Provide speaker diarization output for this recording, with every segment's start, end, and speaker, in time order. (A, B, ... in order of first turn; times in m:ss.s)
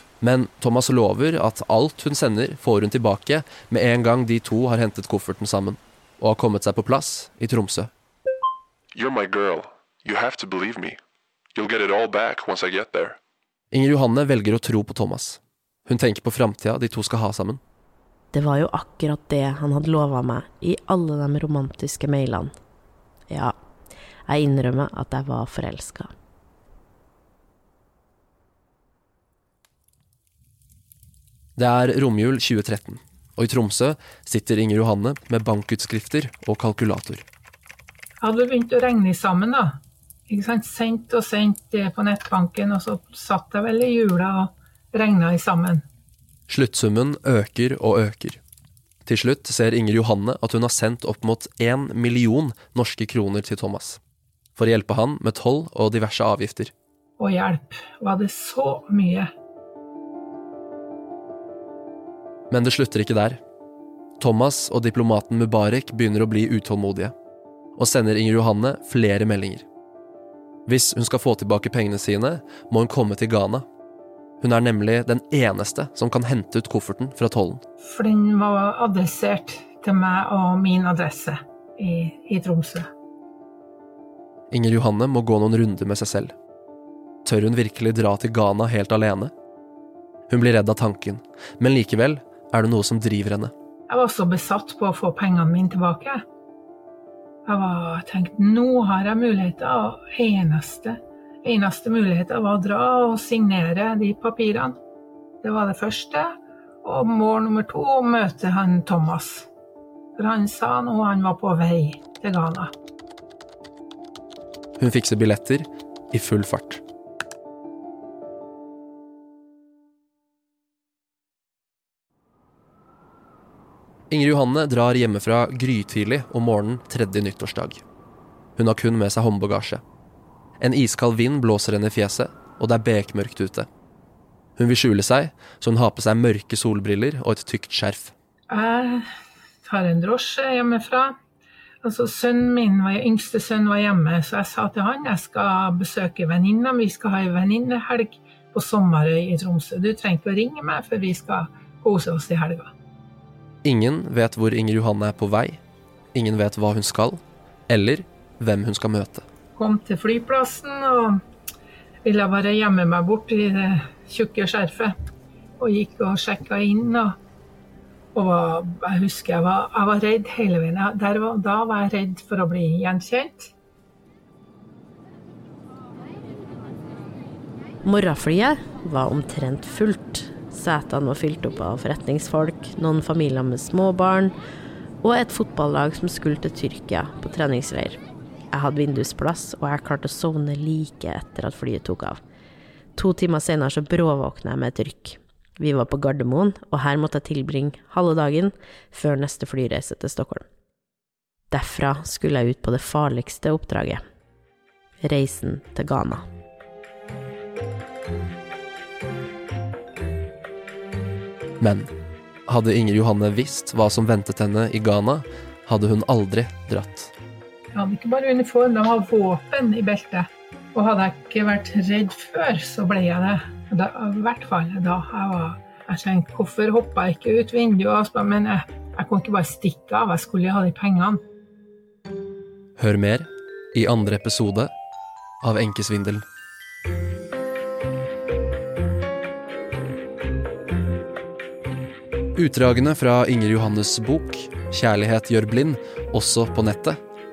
0:00.2-0:07.9 A
0:08.9-0:11.0 B
0:11.5-0:13.2 B
0:13.7-0:17.6 A
0:18.3-0:22.5 C
0:24.3-0:26.1 C
0:31.6-0:37.2 A
0:38.2-0:45.8 D
0:46.5-0:48.4 A
0:49.0-0:54.0 A
0:54.6-0:56.7 A
0:57.2-0:59.3 D
1:02.5-1:03.4 A
1:04.2-1:07.1 A
1:07.8-1:09.6 A
1:10.7-1:13.6 A
1:14.4-1:17.6 A
1:17.8-1:22.9 D
1:24.5-1:26.3 A
1:27.2-1:29.3 A
1:30.3-1:33.5 A
1:33.9-1:36.2 D
1:37.4-1:44.8 D
1:45.4-1:46.3 D
1:46.8-1:49.5 D
1:50.2-1:52.7 D
1:54.8-1:56.8 A
2:04.1-2:07.8 A
2:08.6-2:09.8 A
2:10.6-2:13.7 A
2:14.6-2:18.1 A
2:18.5-2:19.0 D
2:19.6-2:21.2 D
2:21.8-2:32.7 D
2:33.6-2:35.6 A
2:36.1-2:39.2 A
2:39.5-2:41.2 D
2:42.0-2:44.9 D
2:45.6-2:47.2 D
2:48.1-2:53.5 D
2:57.8-3:04.3 C
3:05.0-3:08.0 C
3:08.5-3:12.2 C
3:13.0-3:20.4 C
3:21.5-3:24.0 C
3:25.0-3:26.2 C
3:31.6-3:31.9 A
3:32.5-3:37.1 A
3:37.7-3:51.2 D
3:52.8-3:54.7 A
3:55.4-3:56.2 A
4:02.3-4:07.0 A